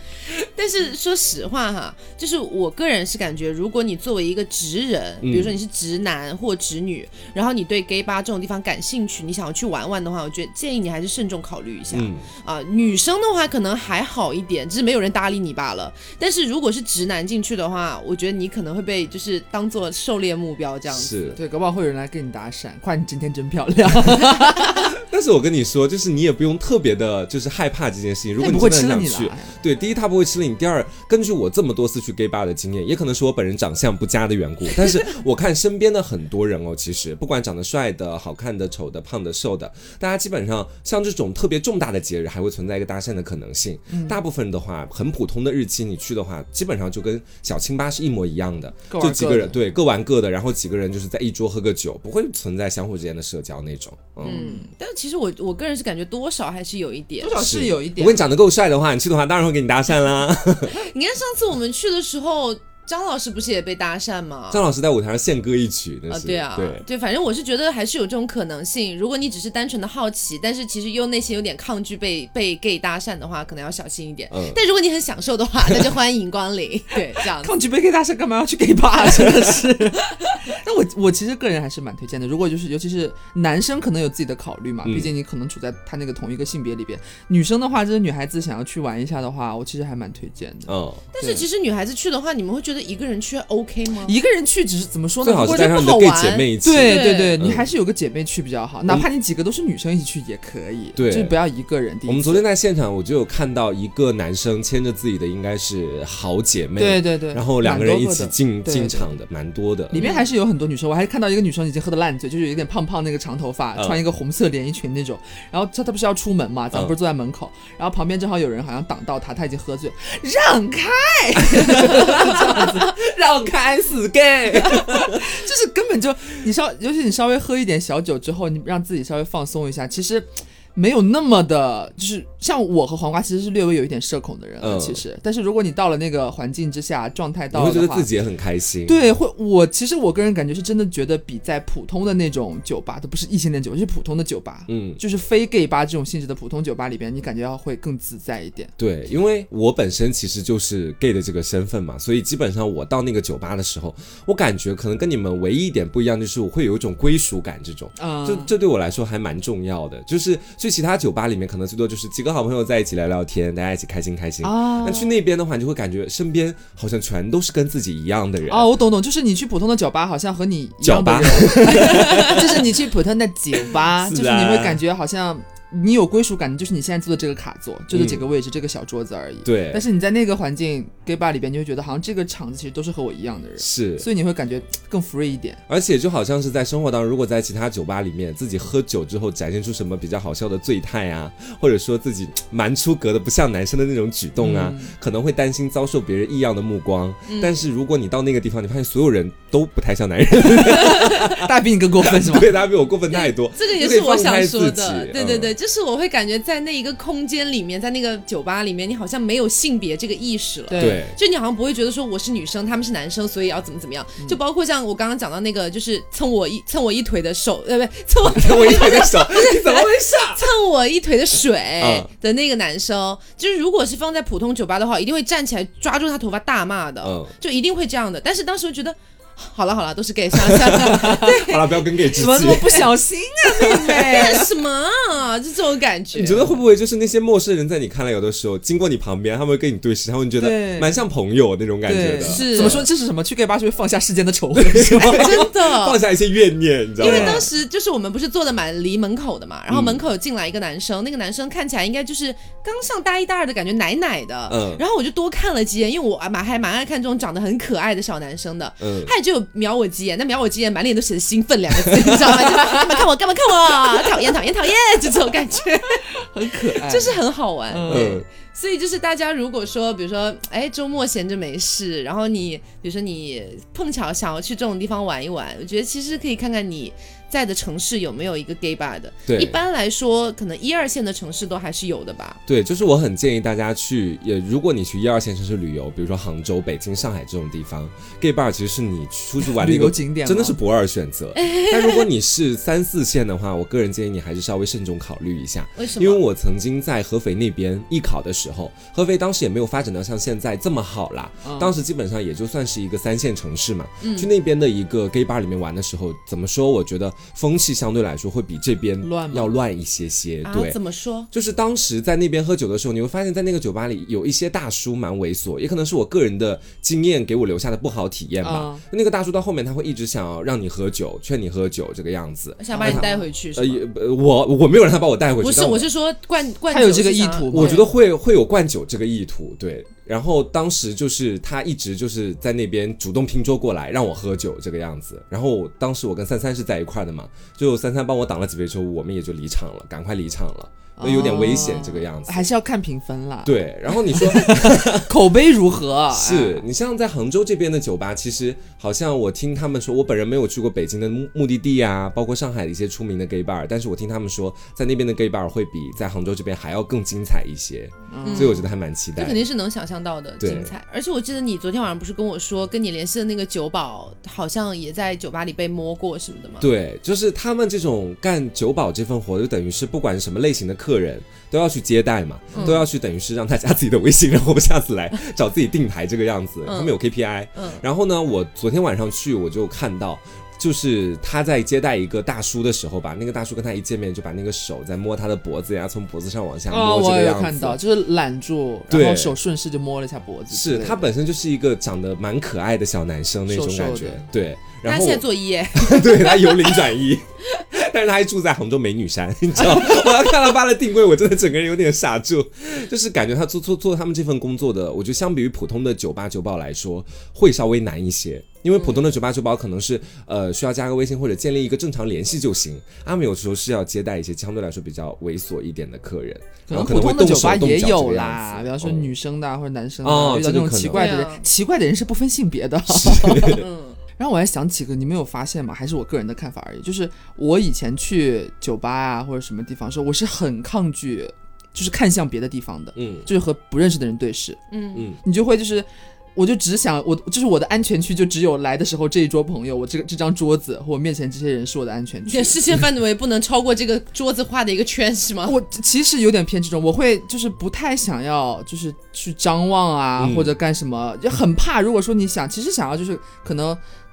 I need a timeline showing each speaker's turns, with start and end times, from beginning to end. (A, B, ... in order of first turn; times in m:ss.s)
0:00.4-0:21.3 A
0:05.2-0:05.6 B
0:11.9-0:12.3 B
0:20.9-0:21.4 B
0:21.4-0:24.9 C
0:24.9-0:54.4 B
0:28.4-0:29.6 C
0:43.9-0:44.2 C
0:48.9-0:49.6 C
0:54.2-0:54.7 C
0:54.2-0:57.4 A
0:57.2-0:58.2 C
0:57.4-1:00.8 B
1:00.7-1:04.6 A
1:04.5-1:06.8 B
1:06.1-1:17.5 A
1:14.3-1:14.6 B
1:17.2-1:31.5 C
1:24.8-1:25.1 B
1:30.7-1:31.0 B
1:31.1-1:34.2 A
1:34.0-1:35.8 C
1:35.2-1:37.7 B
1:35.4-1:37.4 A
1:36.6-1:42.4 C
1:41.0-1:41.4 B
1:42.1-1:50.0 B
1:46.8-1:49.1 C
1:49.9-2:03.0 C
1:50.0-1:50.3 A
1:53.8-1:54.0 B
2:01.6-2:05.2 B
2:04.4-2:18.1 C
2:14.6-2:15.0 B
2:17.5-2:19.0 B
2:18.9-2:28.7 C
2:24.7-2:25.0 B
2:28.8-2:48.7 B
2:38.0-2:38.5 C
2:44.4-2:45.2 C
2:48.5-3:05.6 C
2:50.8-2:52.7 B
2:54.0-2:54.8 B
2:57.9-2:58.2 B
2:59.4-2:59.8 B
3:03.6-3:04.1 B
3:05.7-3:21.5 B
3:14.4-3:14.9 C
3:17.3-3:17.6 A
3:20.8-3:21.3 A
3:20.9-3:22.6 C
3:22.0-3:25.5 B
3:23.1-3:52.8 A
3:30.7-3:31.0 C
3:30.8-3:31.2 B
3:38.2-3:40.4 B
3:41.8-3:42.1 B
3:47.0-3:47.3 B
3:50.5-3:52.9 B
3:52.1-3:54.5 C
3:53.5-3:56.6 A
3:56.1-4:02.9 B
4:00.4-4:01.0 C
4:01.8-4:05.5 C
4:02.2-4:02.9 A
4:04.6-4:07.5 B
4:05.0-4:06.0 A
4:07.0-4:42.4 A
4:07.0-4:07.5 C
4:09.7-4:10.0 B
4:14.5-4:14.8 B
4:18.8-4:19.1 B
4:26.1-4:28.2 C
4:27.9-4:28.3 B
4:39.3-4:39.6 B
4:42.5-5:10.8 B
4:49.4-4:50.6 C
4:51.4-4:52.1 A
4:55.8-4:56.2 A
5:01.4-5:01.7 C
5:04.0-5:04.3 A
5:09.0-5:09.6 C
5:10.4-5:11.3 A
5:11.3-5:25.9 B
5:18.4-5:18.8 C
5:22.6-5:23.8 A
5:22.7-5:23.2 C
5:25.4-5:27.8 A
5:26.7-5:27.9 C
5:27.5-5:42.5 B
5:41.0-5:46.7 C
5:43.4-5:45.1 B
5:46.1-5:59.4 B
5:58.1-5:58.6 C
5:58.2-6:06.7 A
6:00.4-6:00.7 B
6:06.6-6:27.8 B
6:12.5-6:12.8 C
6:12.5-6:12.8 A
6:16.7-6:17.0 A
6:17.5-6:17.8 A
6:26.7-6:31.1 C
6:28.9-6:29.4 B
6:30.5-6:59.1 B
6:33.5-6:34.2 C
6:34.8-6:36.8 A
6:48.8-6:49.1 A
6:56.7-7:03.7 C
7:00.0-7:01.2 B
7:00.9-7:01.4 A
7:02.9-7:03.6 B
7:03.4-7:04.0 A
7:04.2-7:14.6 C
7:13.0-7:13.3 B
7:14.7-7:15.1 A
7:15.2-7:22.6 C
7:22.3-7:25.6 A
7:25.5-7:33.8 C
7:30.2-7:30.5 B